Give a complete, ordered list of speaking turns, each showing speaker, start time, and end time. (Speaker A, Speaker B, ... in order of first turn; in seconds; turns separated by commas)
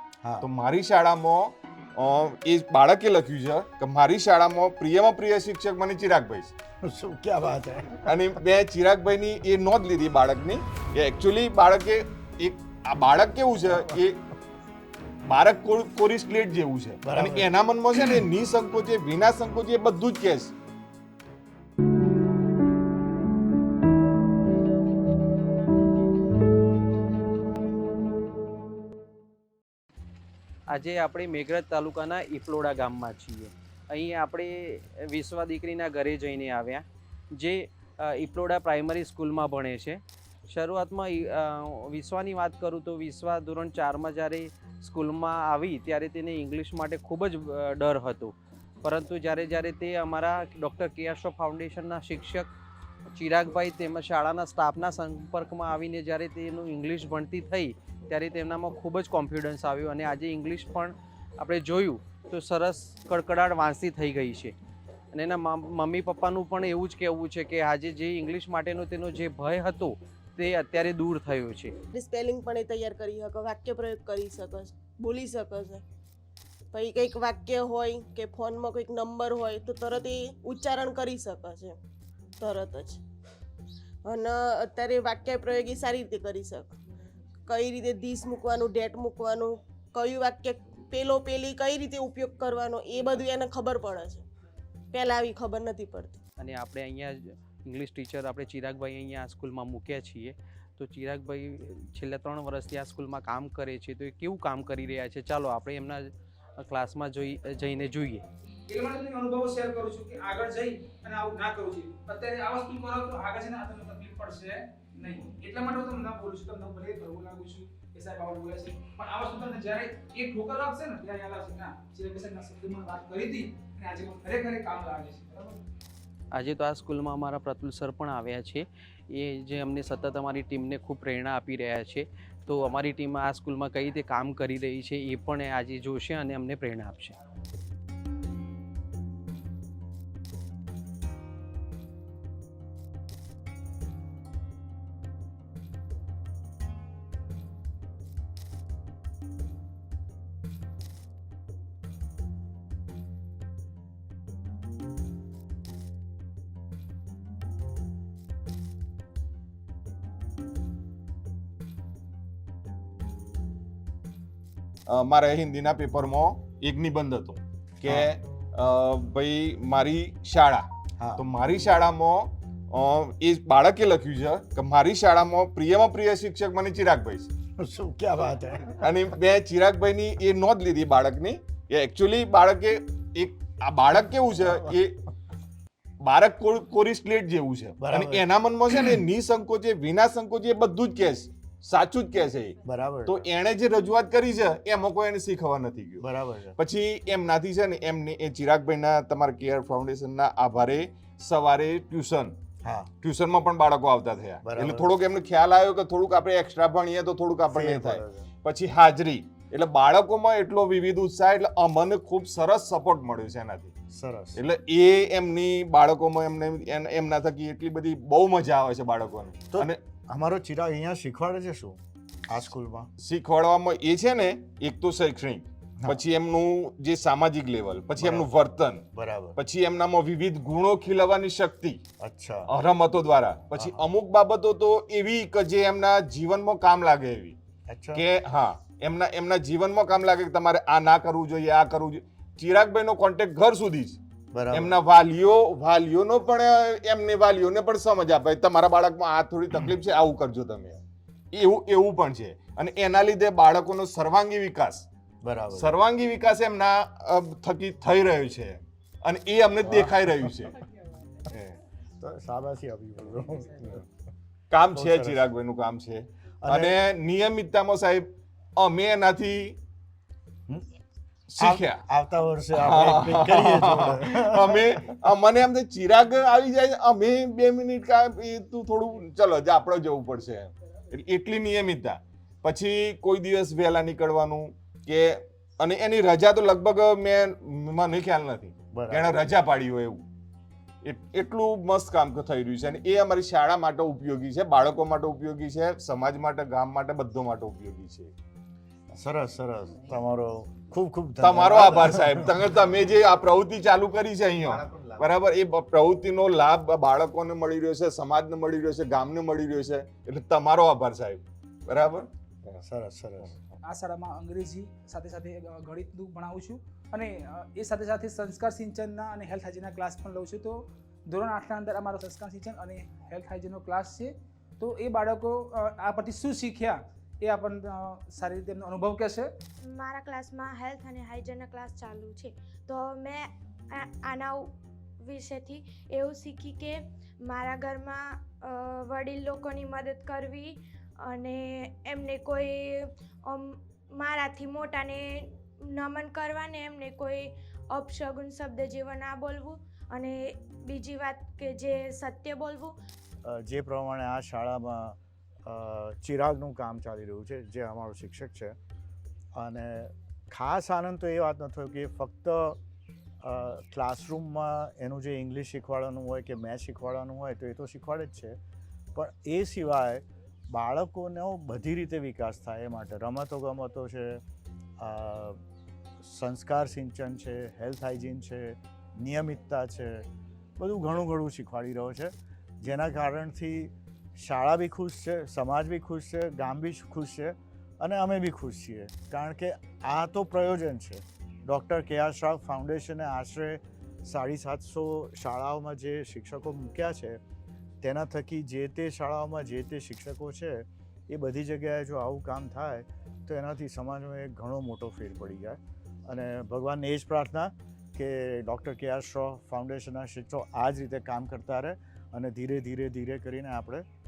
Speaker A: 0.2-0.5, Speaker B: 0.4-6.5, Speaker A: 6.8-8.4, Speaker B: 8.1-14.2, Speaker A: 13.7-14.0, Speaker B: 15.3-20.5, Speaker A: 17.0-17.5, Speaker C: 30.7-36.9, Speaker C: 37.4-52.5, Speaker C: 53.1-64.5, Speaker C: 65.1-71.7, Speaker D: 71.9-75.8, Speaker D: 76.7-81.8, Speaker D: 82.4-83.0, Speaker D: 84.0-86.8, Speaker D: 87.5-94.3, Speaker D: 94.9-96.2, Speaker C: 96.4-108.2, Speaker E: 108.7-125.6, Speaker C: 126.3-137.2, Speaker B: 164.9-170.7, Speaker A: 167.9-168.1, Speaker B: 171.2-177.3, Speaker A: 177.6-179.0, Speaker B: 178.8-185.0, Speaker B: 186.0-196.1, Speaker A: 187.8-188.3, Speaker A: 192.7-193.2, Speaker A: 196.0-196.6, Speaker B: 196.6-202.3, Speaker A: 202.6-202.9, Speaker B: 203.0-213.8, Speaker A: 204.4-204.9, Speaker A: 207.5-208.3, Speaker A: 213.9-214.4, Speaker B: 214.4-219.8, Speaker A: 219.5-222.9, Speaker B: 223.0-231.8, Speaker A: 228.0-228.3, Speaker A: 228.9-229.4, Speaker A: 232.0-232.5, Speaker B: 232.5-237.4, Speaker A: 233.6-233.8, Speaker A: 237.7-238.0, Speaker B: 237.9-244.0, Speaker A: 244.3-244.8, Speaker B: 244.5-250.8, Speaker B: 251.3-254.9, Speaker A: 255.2-255.8, Speaker B: 255.6-260.6, Speaker A: 259.7-260.0, Speaker A: 262.0-263.9, Speaker B: 264.5-269.6, Speaker A: 264.7-265.2, Speaker A: 266.4-266.8, Speaker B: 271.3-271.8, Speaker A: 271.4-274.8, Speaker B: 272.6-290.0, Speaker A: 288.7-289.2, Speaker B: 290.8-298.1, Speaker A: 298.9-302.4, Speaker B: 301.2-312.6, Speaker A: 312.6-313.4, Speaker E: 313.6-329.3, Speaker F: 329.6-334.5, Speaker F: 335.0-352.7, Speaker A: 353.3-358.5, Speaker A: 359.4-362.6, Speaker A: 363.2-368.4, Speaker A: 368.9-374.2, Speaker A: 374.8-375.4, Speaker A: 376.0-397.2, Speaker A: 397.8-413.8